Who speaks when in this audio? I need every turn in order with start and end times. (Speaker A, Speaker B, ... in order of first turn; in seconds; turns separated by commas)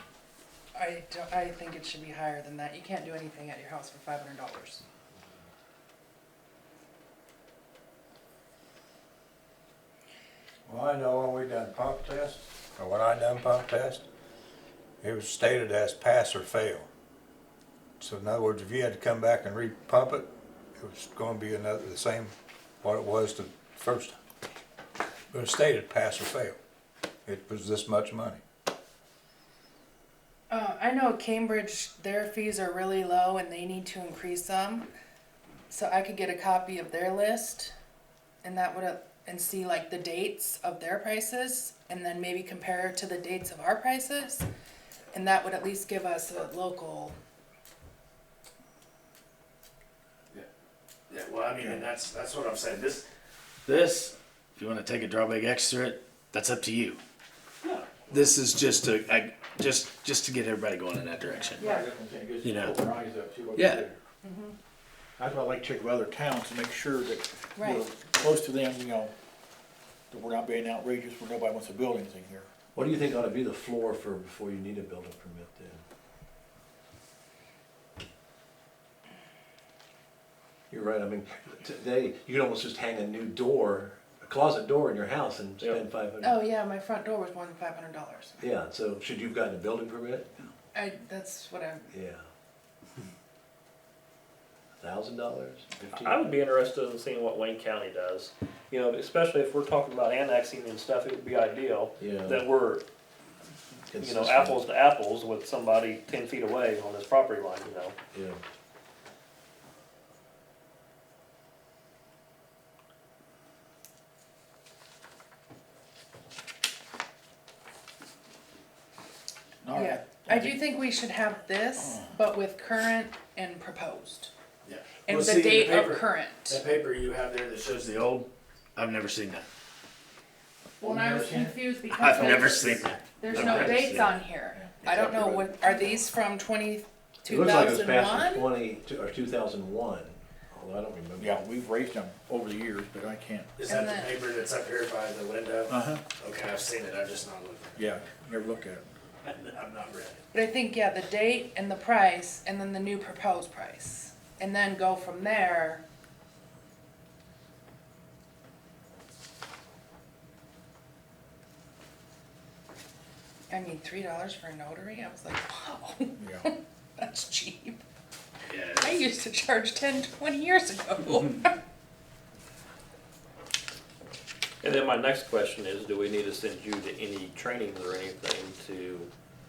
Speaker A: 0.8-4.8, Speaker B: 10.7-14.0, Speaker B: 15.0-16.9, Speaker B: 18.0-24.2, Speaker B: 25.3-26.6, Speaker B: 27.3-28.4, Speaker A: 30.5-34.9, Speaker A: 35.7-37.8, Speaker A: 38.4-44.5, Speaker A: 45.1-47.1, Speaker C: 51.1-53.1, Speaker C: 53.6-57.0, Speaker C: 58.1-61.6, Speaker D: 61.4-64.0, Speaker A: 61.6-61.9, Speaker C: 62.4-62.8, Speaker C: 63.5-63.9, Speaker A: 64.2-64.6, Speaker D: 65.2-69.1, Speaker A: 67.6-67.9, Speaker D: 70.1-72.5, Speaker E: 72.8-75.8, Speaker E: 80.7-86.3, Speaker A: 86.2-88.4, Speaker E: 88.4-90.3, Speaker A: 90.7-91.9, Speaker E: 91.9-92.2, Speaker E: 94.8-96.1, Speaker F: 95.9-102.8, Speaker E: 102.0-102.4, Speaker E: 103.9-104.6, Speaker F: 104.0-108.0, Speaker E: 108.1-108.4, Speaker D: 119.6-120.6, Speaker A: 119.7-124.3, Speaker C: 124.6-129.5, Speaker A: 125.1-126.6, Speaker A: 130.8-138.6, Speaker D: 130.8-131.6, Speaker C: 131.9-133.9, Speaker E: 133.3-134.1, Speaker D: 134.5-135.9, Speaker E: 137.3-141.3, Speaker D: 141.2-143.5, Speaker C: 143.6-147.8, Speaker A: 143.7-144.1, Speaker D: 145.7-146.1, Speaker D: 147.8-148.9, Speaker C: 149.2-150.2, Speaker A: 150.3-155.8, Speaker A: 163.5-167.8, Speaker D: 166.2-166.5, Speaker C: 168.5-169.0, Speaker A: 168.8-171.6, Speaker F: 174.6-179.1